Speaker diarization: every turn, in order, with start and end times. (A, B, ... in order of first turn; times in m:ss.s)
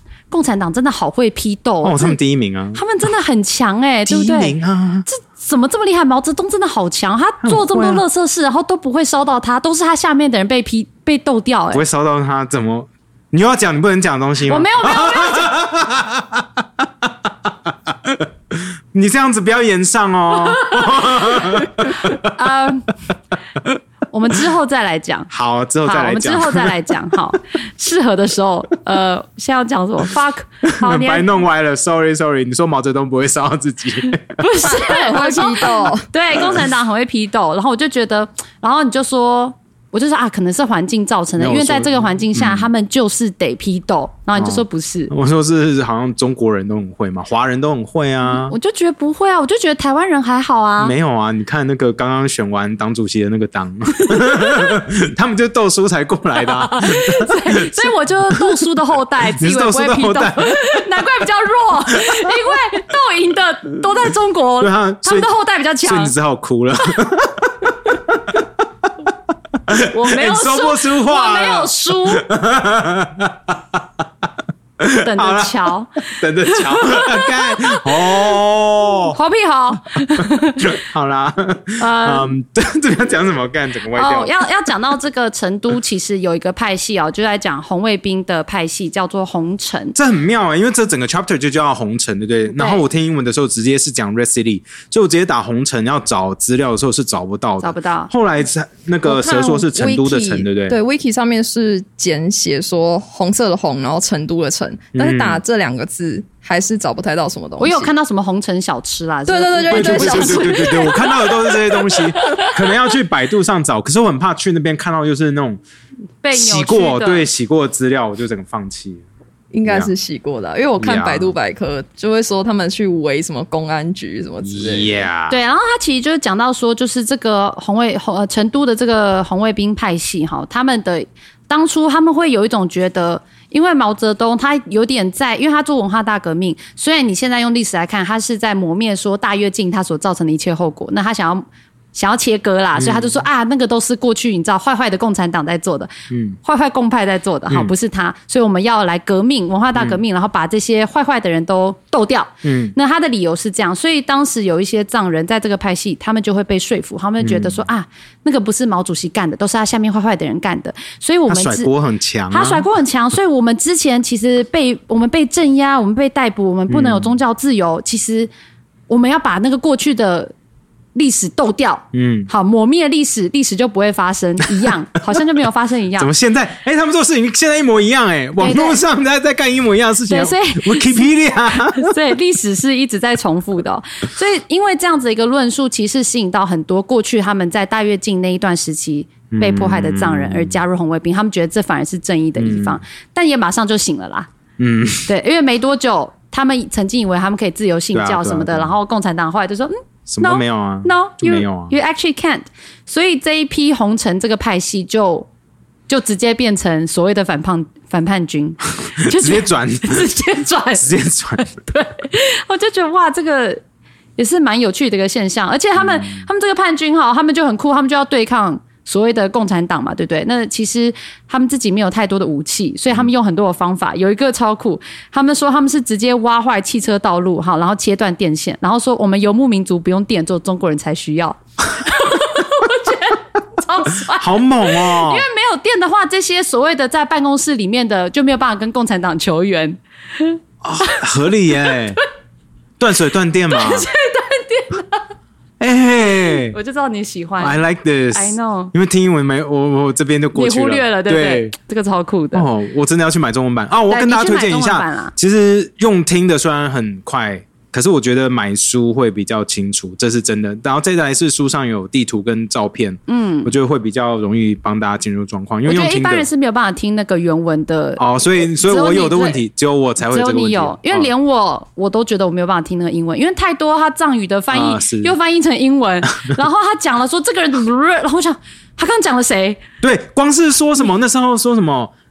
0:00.3-0:02.2 A
0:01.8-0:02.8 B
0:02.7-0:04.6 A
0:04.1-0:05.1 B
0:05.1-0:11.8 A
0:07.4-0:08.0 B
0:11.7-0:22.3 B
0:14.5-0:15.6 A
0:20.6-0:21.3 A
0:21.9-0:22.9 A
0:24.1-0:25.3 A
0:25.3-0:26.8 B
0:25.8-0:31.4 A
0:30.8-0:34.4 B
0:34.4-0:45.1 A
0:34.6-0:36.1 C
0:41.4-0:42.7 B
0:44.4-0:48.6 B
0:48.3-0:50.9 A
0:50.8-0:58.7 B
0:54.0-0:54.8 A
0:56.4-1:06.1 A
0:59.2-1:00.8 B
1:04.6-1:05.3 B
1:05.8-1:09.1 B
1:09.7-1:14.3 B
1:09.9-1:12.3 A
1:14.8-1:19.2 B
1:15.0-1:15.9 A
1:16.5-1:18.3 A
1:19.1-1:20.8 A
1:20.6-1:24.3 B
1:21.8-1:22.3 A
1:24.0-1:30.0 A
1:30.0-1:40.8 B
1:32.5-1:32.8 A
1:37.6-1:38.1 A
1:39.1-1:47.9 C
1:45.0-1:45.4 B
1:47.6-1:51.5 A
1:49.3-1:51.5 C
1:49.7-1:55.6 B
1:52.2-1:52.6 A
1:56.2-1:57.3 A
1:56.3-1:59.0 B
1:59.5-2:05.1 C
1:59.7-1:59.9 B
2:00.8-2:01.3 B
2:04.4-2:05.4 B
2:05.3-2:41.7 A
2:22.8-2:23.2 B
2:26.1-2:26.4 B
2:32.4-2:32.7 B
2:37.2-2:37.6 B
2:41.3-2:42.6 B
2:42.3-2:48.3 A
2:46.7-2:47.1 B
2:48.9-2:50.3 A
2:51.0-2:56.1 A
2:51.9-2:52.3 B
2:56.0-3:02.0 B
2:58.4-2:58.8 A
3:00.1-3:01.1 A
3:01.7-3:14.3 A
3:09.3-3:10.6 B
3:12.4-3:12.8 B
3:14.6-3:15.1 B
3:15.1-3:25.3 A
3:17.9-3:18.8 B
3:20.1-3:21.7 B
3:25.9-3:33.6 A
3:29.0-3:30.1 B
3:30.8-3:31.5 B
3:34.2-4:01.0 A
3:35.8-3:36.2 B
3:54.1-3:55.2 B
4:00.6-4:02.0 B
4:02.8-4:03.9 B
4:03.5-4:05.0 A
4:05.6-4:06.6 B
4:06.5-4:07.6 A
4:07.4-4:11.6 B
4:08.1-4:08.7 A
4:10.4-4:12.5 A
4:12.3-4:26.3 B
4:13.9-4:15.1 A
4:23.1-4:23.5 A
4:25.7-4:29.4 A
4:28.0-4:31.1 B
4:30.0-4:39.6 A
4:34.5-4:35.2 B
4:39.8-4:41.9 B